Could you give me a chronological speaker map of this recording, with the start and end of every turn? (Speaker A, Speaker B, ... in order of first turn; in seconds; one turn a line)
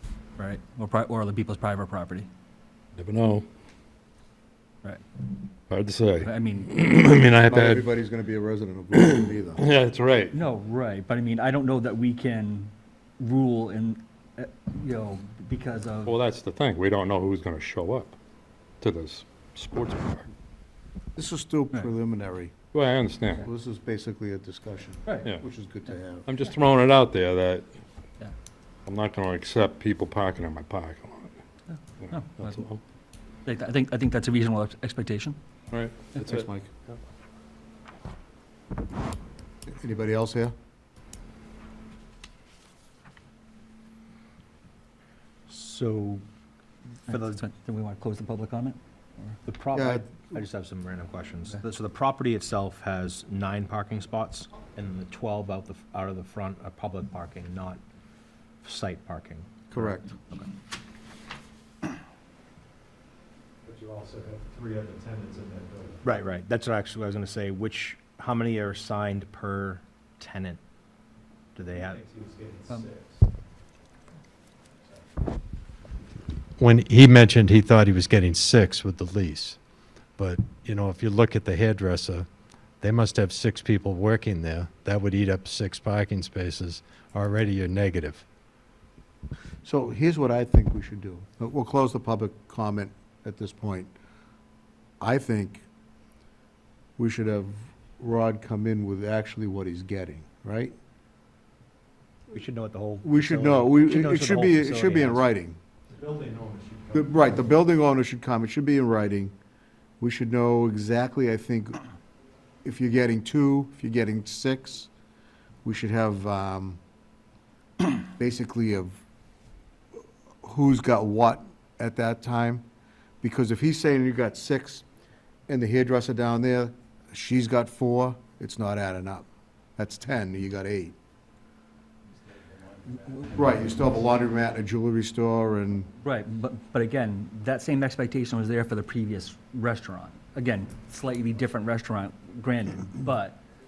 Speaker A: 0.4-2.3
Speaker B: 3.0-3.5
Speaker B: 5.7-7.9
Speaker A: 6.2-6.7
Speaker C: 7.5-9.6
Speaker B: 8.9-10.4
Speaker A: 10.3-16.2
Speaker B: 16.1-18.2
Speaker B: 18.8-20.3
Speaker C: 21.2-22.6
Speaker B: 22.7-23.4
Speaker C: 23.4-26.3
Speaker B: 26.3-27.8
Speaker B: 28.9-31.4
Speaker A: 31.7-32.6
Speaker B: 32.0-32.8
Speaker A: 33.5-35.4
Speaker B: 35.7-37.0
Speaker C: 36.2-36.7
Speaker C: 39.7-40.5
Speaker D: 45.5-46.2
Speaker A: 47.1-49.4
Speaker D: 47.1-47.4
Speaker D: 49.5-57.8
Speaker C: 49.7-50.1
Speaker D: 58.6-60.1
Speaker C: 59.7-60.1
Speaker E: 63.6-66.0
Speaker D: 66.0-70.6
Speaker D: 71.6-72.0
Speaker E: 71.7-73.2
Speaker F: 76.6-79.6
Speaker F: 80.2-82.3
Speaker F: 82.8-88.2
Speaker C: 89.6-93.9
Speaker C: 95.0-95.6
Speaker C: 97.0-100.8
Speaker D: 102.3-105.3
Speaker C: 103.0-105.6
Speaker E: 105.9-107.2
Speaker C: 106.9-109.3
Speaker C: 110.0-111.8
Speaker C: 112.6-114.9
Speaker C: 115.6-116.8
Speaker C: 118.2-119.0
Speaker C: 120.4-122.7
Speaker C: 123.2-124.9
Speaker C: 125.5-129.3
Speaker C: 129.8-131.0
Speaker C: 133.3-135.9
Speaker A: 136.0-143.4